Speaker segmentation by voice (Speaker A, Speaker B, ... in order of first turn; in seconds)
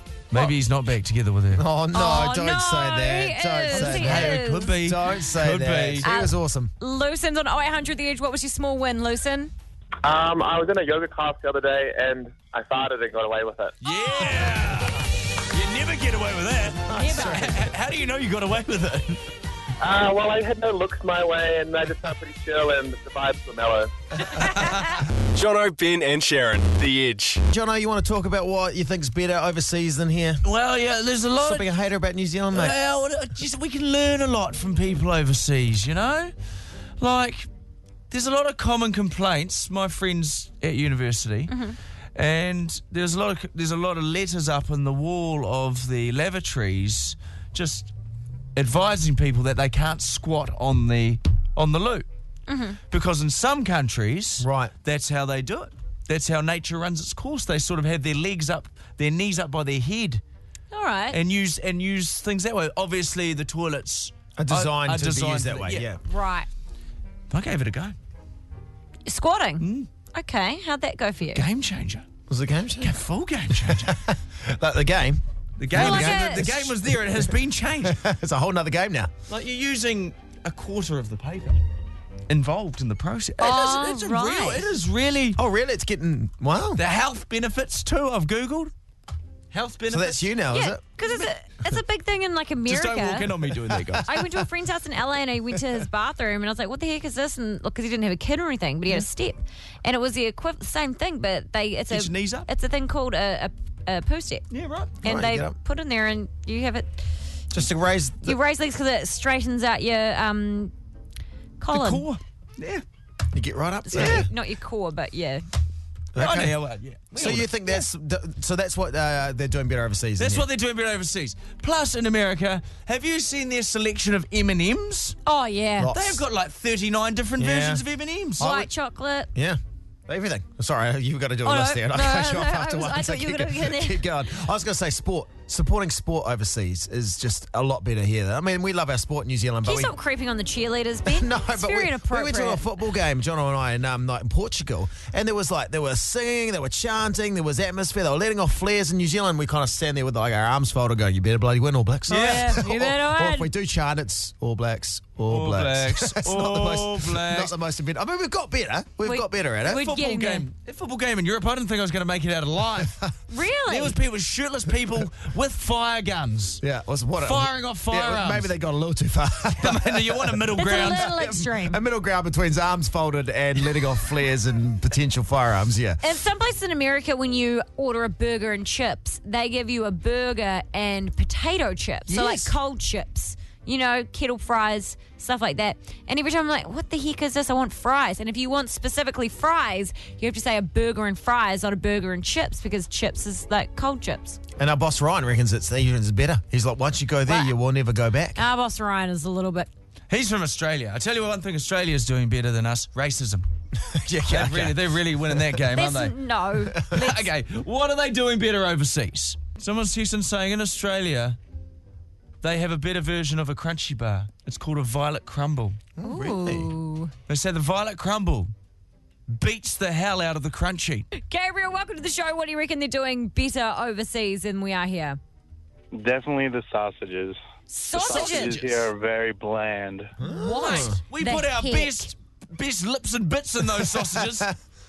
Speaker A: 0.3-1.6, 3.7-6.0, 13.8-19.2, 24.4-24.9, 30.4-31.7, 32.5-36.3, 37.0-37.5, 38.1-41.5, 42.1-47.9, 48.5-52.1, 52.9-60.2, 61.1-65.8, 67.3-68.0, 69.6-69.9, 71.3-72.1, 72.8-74.0, 75.6-78.0, 79.3-81.6, 82.3-85.4, 86.8-88.7, 89.5-90.3, 92.7-94.1, 101.9-102.5, 104.5-105.0, 111.7-112.8, 114.0-114.2, 116.2-117.8, 120.2-125.2, 125.9-128.5, 152.1-152.6, 155.3-157.5, 159.7-163.0, 163.7-166.6, 167.2-168.5, 169.6-171.1, 200.1-203.4, 204.2-206.2, 206.9-211.4, 212.4-215.8, 217.3-218.5, 219.3-221.1, 227.9-228.8, 230.7-234.5
Speaker B: 1.5-6.7, 16.9-17.6, 27.5-30.4, 31.4-32.8, 54.4-54.7, 64.4-66.0, 72.3-73.0, 73.5-77.3, 77.8-79.1, 85.4-86.8, 89.9-90.8, 93.7-94.0, 105.0-105.5, 107.5-108.4, 113.3-114.3, 116.2-116.6, 117.1-120.5, 125.8-126.2, 127.4-127.8, 128.4-128.7, 129.3-139.9, 141.1-159.9, 166.6-176.0, 182.1-182.5, 194.6-198.4, 203.8-205.6, 216.0-216.7, 230.2-231.0, 233.8-234.5
Speaker C: 1.9-4.7, 6.0-9.5, 13.8-14.6, 16.9-17.5, 24.5-24.8, 41.5-41.8, 52.5-52.8, 60.7-61.2, 66.1-66.5, 69.1-71.4, 75.7-76.5, 83.4-84.7, 90.5-93.3, 94.1-104.5, 105.0-107.0, 108.2-110.7, 111.6-112.0, 113.9-115.4, 125.3-125.9, 128.4-129.3, 131.4-134.0, 139.6-142.6, 152.1-153.5, 159.0-160.4, 163.3-163.9, 170.6-171.8, 176.0-194.4, 197.3-197.5, 198.3-199.7, 205.7-207.3, 216.0-217.1, 221.2-225.2, 227.7-228.6, 230.2-232.1
Speaker D: 10.0-13.8, 19.8-23.9
Speaker E: 25.3-27.4
Speaker F: 225.9-227.4, 228.0-230.1